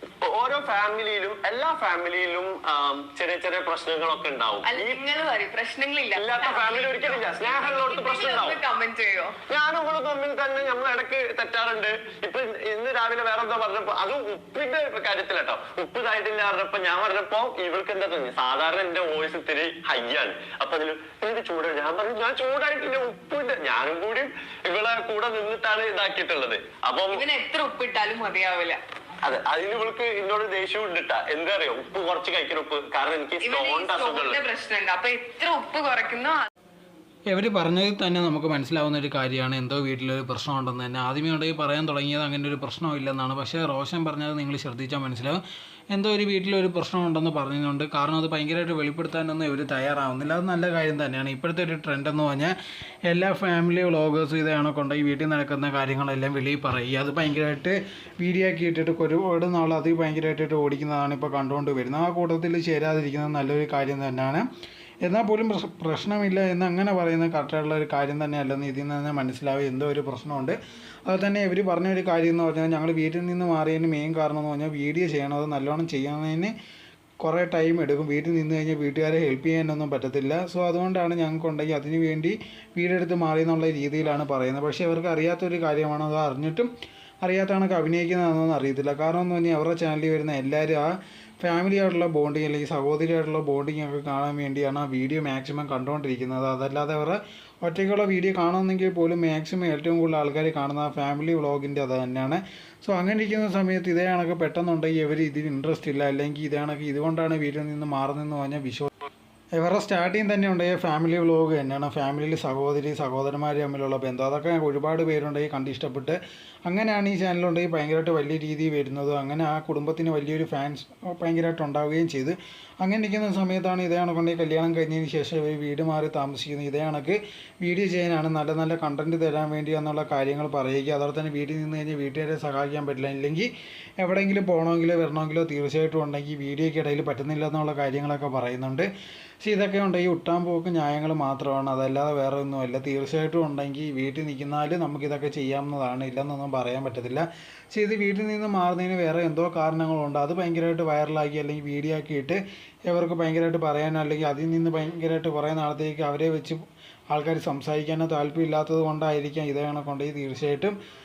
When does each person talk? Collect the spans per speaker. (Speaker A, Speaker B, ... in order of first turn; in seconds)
Speaker A: 0.2-5.0, 6.2-8.6, 9.5-27.2, 29.2-34.4
Speaker B: 4.6-9.4, 27.1-28.8, 33.4-36.5
Speaker C: 37.3-45.4, 45.9-52.5, 53.1-64.4, 65.0-76.5, 77.2-86.7, 87.2-90.9, 91.4-108.9, 109.6-133.5, 134.0-138.9, 139.4-156.6, 157.1-160.7